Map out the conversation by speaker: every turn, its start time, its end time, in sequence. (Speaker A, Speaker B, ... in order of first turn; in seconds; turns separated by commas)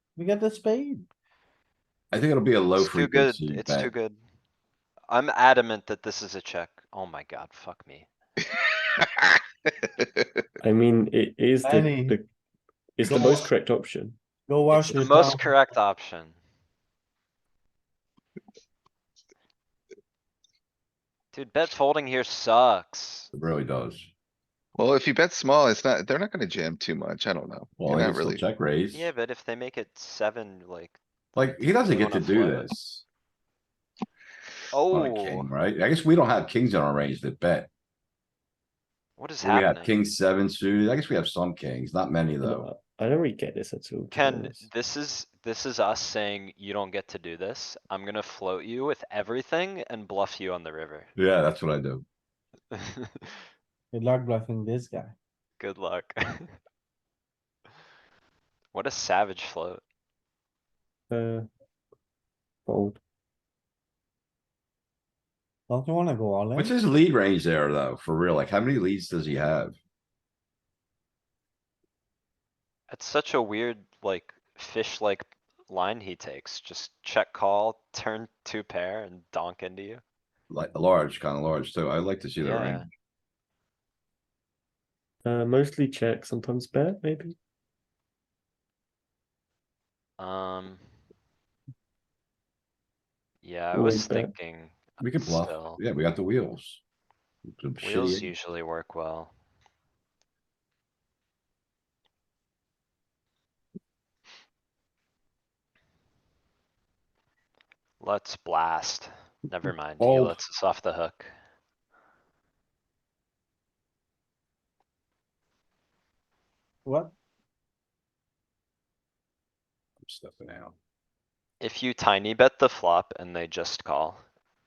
Speaker A: 0.2-1.1, Speaker B: 2.1-3.9, Speaker C: 2.8-4.2, Speaker C: 5.1-8.1, Speaker D: 9.0-9.4, Speaker E: 10.6-12.3, Speaker A: 11.6-12.2, Speaker E: 13.0-14.2, Speaker A: 13.1-13.5, Speaker A: 14.5-15.5, Speaker C: 14.7-16.4, Speaker E: 14.9-15.3, Speaker C: 21.3-23.3, Speaker B: 23.3-24.1, Speaker D: 24.8-28.4, Speaker B: 27.8-29.1, Speaker C: 28.9-31.0, Speaker B: 31.4-33.0, Speaker C: 31.7-32.7, Speaker C: 34.7-35.4, Speaker B: 34.9-37.7, Speaker C: 39.2-40.0, Speaker B: 39.4-42.7, Speaker E: 42.4-44.7, Speaker C: 44.1-51.1, Speaker B: 51.2-52.0, Speaker C: 52.7-53.4, Speaker A: 53.9-55.1, Speaker C: 55.6-56.5, Speaker C: 58.7-59.8, Speaker E: 61.1-61.5, Speaker E: 62.7-63.0, Speaker A: 65.7-66.7, Speaker B: 66.6-69.8, Speaker C: 72.9-80.0, Speaker B: 80.5-82.9, Speaker C: 82.4-82.9, Speaker E: 85.2-87.4, Speaker C: 90.2-90.9, Speaker C: 93.4-95.8, Speaker E: 93.7-94.3, Speaker B: 95.0-96.8, Speaker B: 97.5-98.3, Speaker C: 97.8-99.3, Speaker C: 108.0-111.3, Speaker B: 110.0-110.3, Speaker A: 116.8-117.1, Speaker B: 120.0-120.7, Speaker C: 121.6-124.2